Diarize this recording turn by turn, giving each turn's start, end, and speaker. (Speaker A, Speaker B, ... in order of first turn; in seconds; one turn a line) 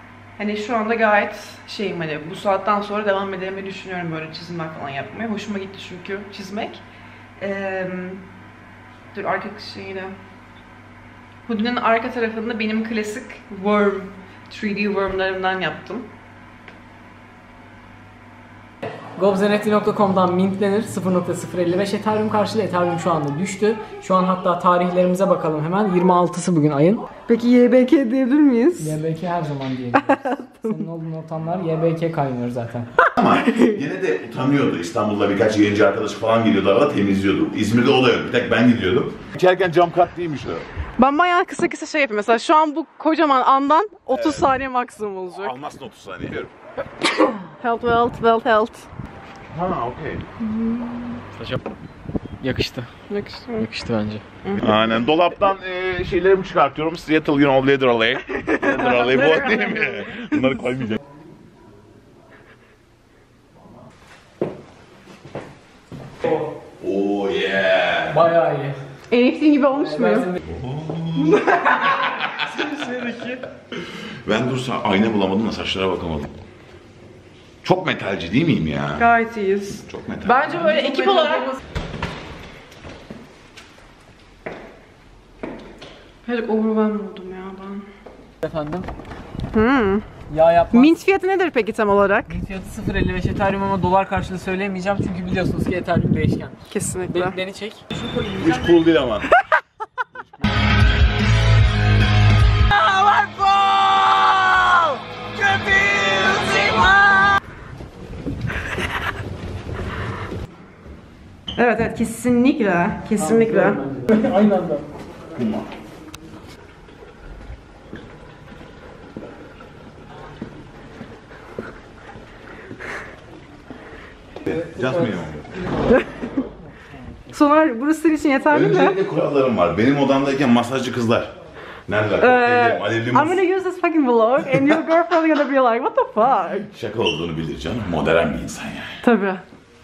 Speaker A: 0.4-6.8
Speaker A: 7.4-8.2
Speaker A: 9.1-10.1
Speaker A: 11.4-16.1
Speaker B: 19.2-27.0
Speaker A: 27.3-29.0
Speaker B: 28.8-32.9
Speaker A: 29.9-30.9
Speaker C: 33.2-40.7
Speaker A: 33.3-33.8
Speaker A: 41.0-45.5
Speaker C: 44.1-44.5
Speaker C: 45.4-46.5
Speaker A: 47.4-48.9
Speaker C: 49.5-50.2
Speaker A: 50.4-51.2
Speaker B: 52.4-52.9
Speaker A: 53.1-53.7
Speaker B: 53.6-54.2
Speaker C: 54.6-61.0
Speaker A: 58.4-60.0
Speaker C: 66.8-68.2
Speaker B: 68.1-68.8
Speaker A: 69.1-70.3
Speaker C: 70.5-72.3
Speaker A: 71.2-73.4
Speaker C: 73.7-76.4
Speaker C: 77.6-79.1
Speaker A: 79.0-81.5
Speaker C: 79.8-80.6
Speaker A: 86.2-87.8
Speaker B: 88.4-88.9
Speaker A: 89.5-90.0
Speaker B: 90.3-90.9
Speaker A: 90.7-92.3
Speaker B: 92.3-98.8
Speaker A: 96.7-97.4
Speaker C: 98.4-99.3
Speaker B: 102.7-106.5
Speaker A: 111.5-113.8
Speaker B: 113.2-114.8
Speaker C: 115.3-115.7
Speaker C: 124.4-125.5
Speaker A: 125.9-126.3
Speaker A: 127.3-129.0
Speaker C: 128.5-131.3
Speaker C: 131.8-133.4
Speaker A: 132.2-136.7
Speaker C: 136.7-139.0
Speaker A: 139.0-139.4